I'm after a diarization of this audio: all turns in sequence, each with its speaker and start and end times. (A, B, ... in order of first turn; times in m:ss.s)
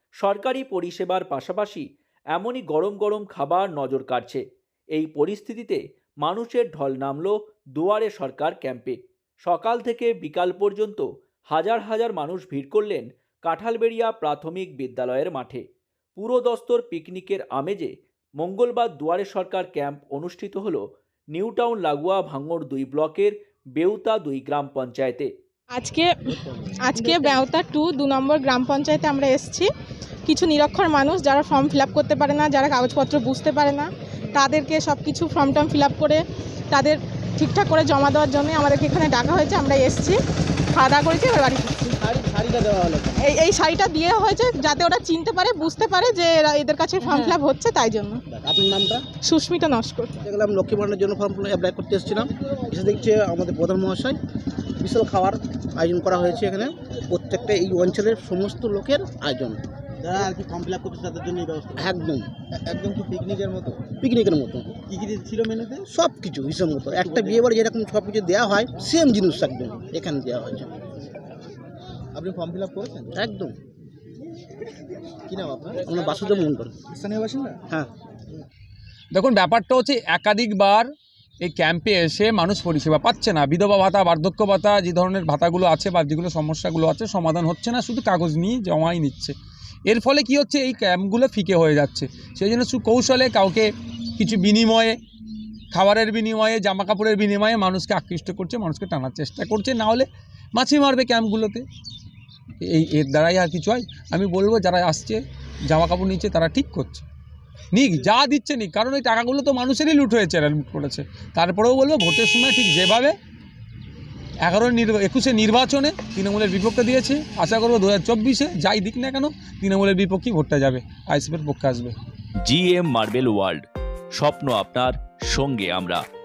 0:00.2-0:04.4 A
0:04.9-0:15.6 A
0:16.2-0:20.8 A
0:21.3-0:25.3 A
0:25.7-0:26.1 B
0:26.5-0:27.3 C
0:26.8-0:29.7 B
0:30.2-0:40.2 B
0:40.7-0:41.9 B
0:42.0-0:43.2 C
0:43.2-0:48.2 B
0:48.3-0:49.0 C
0:49.3-0:50.1 B
0:50.2-0:54.2 D
0:54.8-0:59.6 D
1:00.0-1:01.8 C
1:01.8-1:02.3 D
1:02.5-1:03.9 C
1:04.0-1:04.8 D
1:04.8-1:05.9 C
1:05.9-1:10.7 D
1:07.0-1:07.5 C
1:12.1-1:13.2 C
1:13.1-1:13.5 D
1:15.3-1:15.9 C
1:15.8-1:16.7 D
1:16.9-1:17.6 C
1:19.1-1:20.9 E
1:21.4-1:29.3 E
1:29.9-1:35.0 E
1:35.7-1:41.6 E
1:42.6-1:47.0 E
1:47.7-1:53.1 E
1:54.4-2:01.9 E
2:02.4-2:03.6 A
2:04.2-2:06.0 A